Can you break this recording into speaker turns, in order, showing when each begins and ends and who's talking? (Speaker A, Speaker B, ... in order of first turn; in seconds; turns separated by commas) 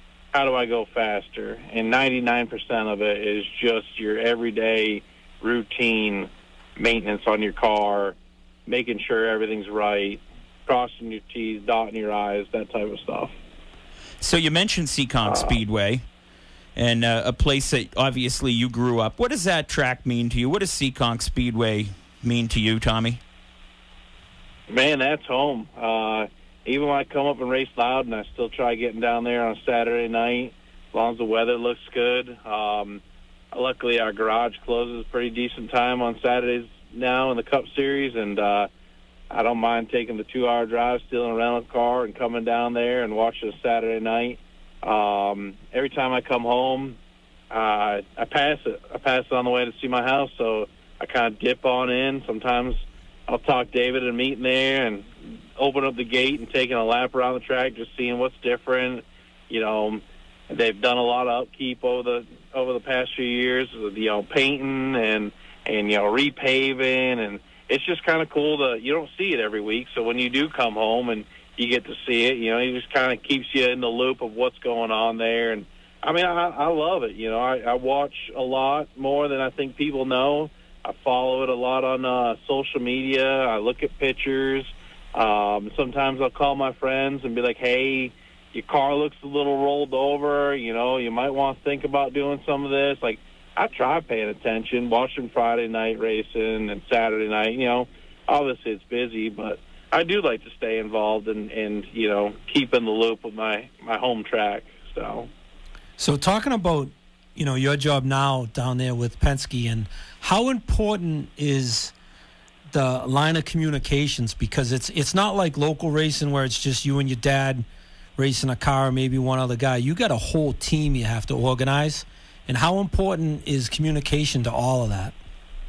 Speaker A: 0.3-13.3, Speaker B: 14.2-16.0, Speaker A: 15.2-15.6, Speaker B: 16.8-23.2, Speaker A: 24.7-33.0, Speaker A: 33.5-38.7, Speaker A: 39.3-47.0, Speaker A: 47.5-105.3, Speaker C: 106.0-111.9, Speaker C: 112.7-117.7, Speaker C: 118.2-125.2